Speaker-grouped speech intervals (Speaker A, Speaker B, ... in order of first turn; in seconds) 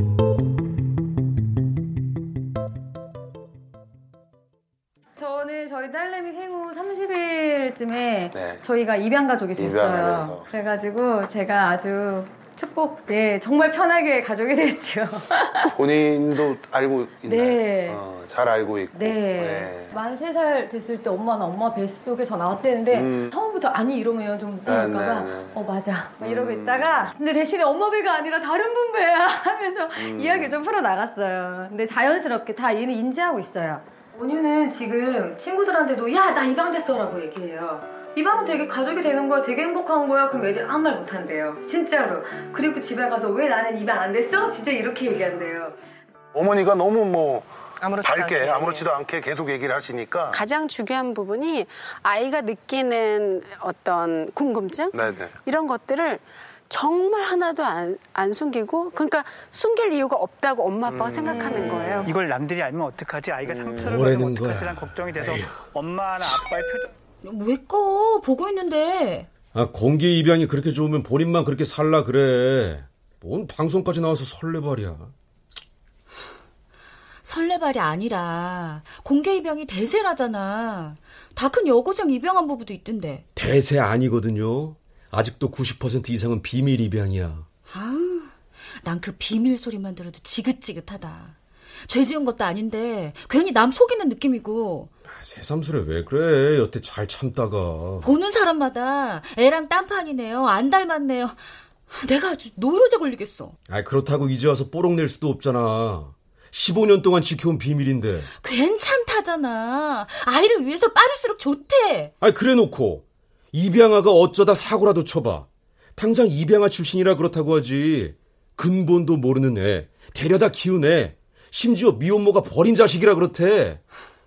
Speaker A: 5.2-15.7, 17.2-18.0, 18.9-45.8
Speaker B: 8.3-8.6, 9.5-10.4, 15.7-19.9, 22.9-23.3, 24.6-25.6, 26.2-27.1, 30.0-30.6, 46.3-50.4, 54.9-55.3, 60.9-62.0, 63.5-63.7
Speaker C: 47.8-48.9, 50.3-62.1
Speaker D: 62.0-66.9
Speaker E: 63.8-65.5, 69.5-75.1, 83.3-87.5, 95.0-98.1, 103.7-108.3, 112.2-123.8
Speaker F: 67.2-69.3, 77.2-83.2, 87.7-94.9, 98.0-101.4, 101.9-103.5, 108.4-112.1